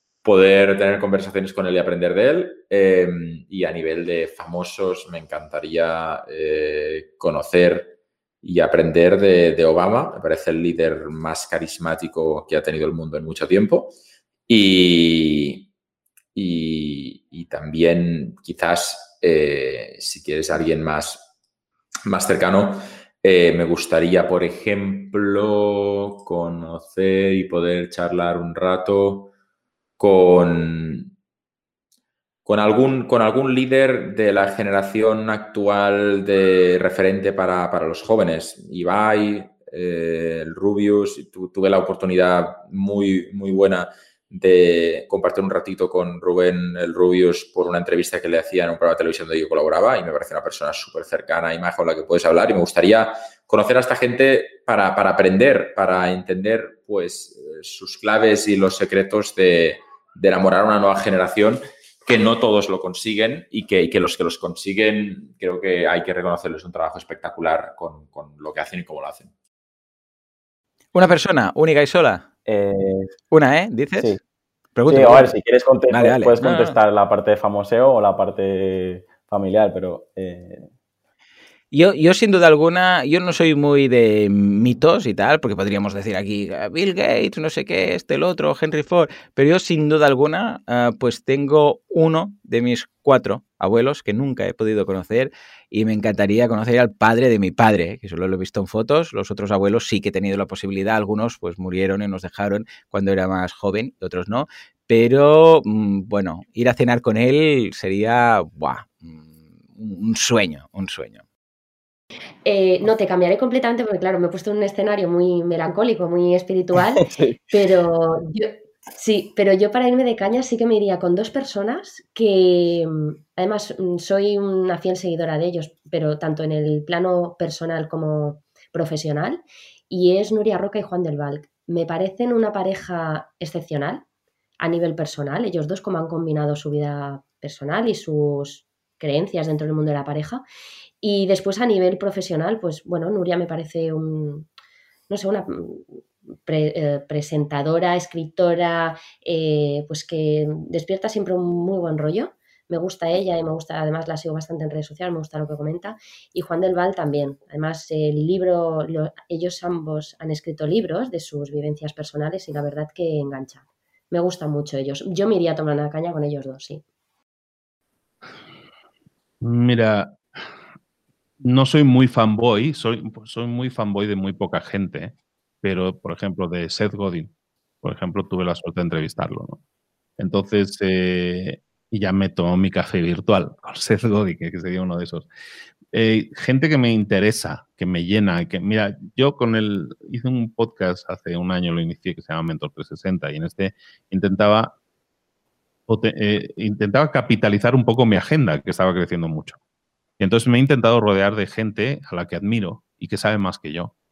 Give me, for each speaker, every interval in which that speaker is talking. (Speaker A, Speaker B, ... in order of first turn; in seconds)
Speaker A: 0.2-14.0, 14.5-15.7, 16.4-21.3, 22.1-29.3, 30.0-31.1, 32.5-69.3
Speaker B: 70.9-72.3, 73.3-74.2, 74.8-75.3, 75.9-76.8, 81.7-111.2
Speaker C: 72.5-73.2, 74.9-80.7
Speaker D: 112.5-134.0, 134.6-140.4, 141.0-144.5, 145.1-166.8
Speaker E: 169.4-170.2, 171.4-179.6, 180.2-185.3, 185.9-194.8, 195.9-199.6, 200.2-203.9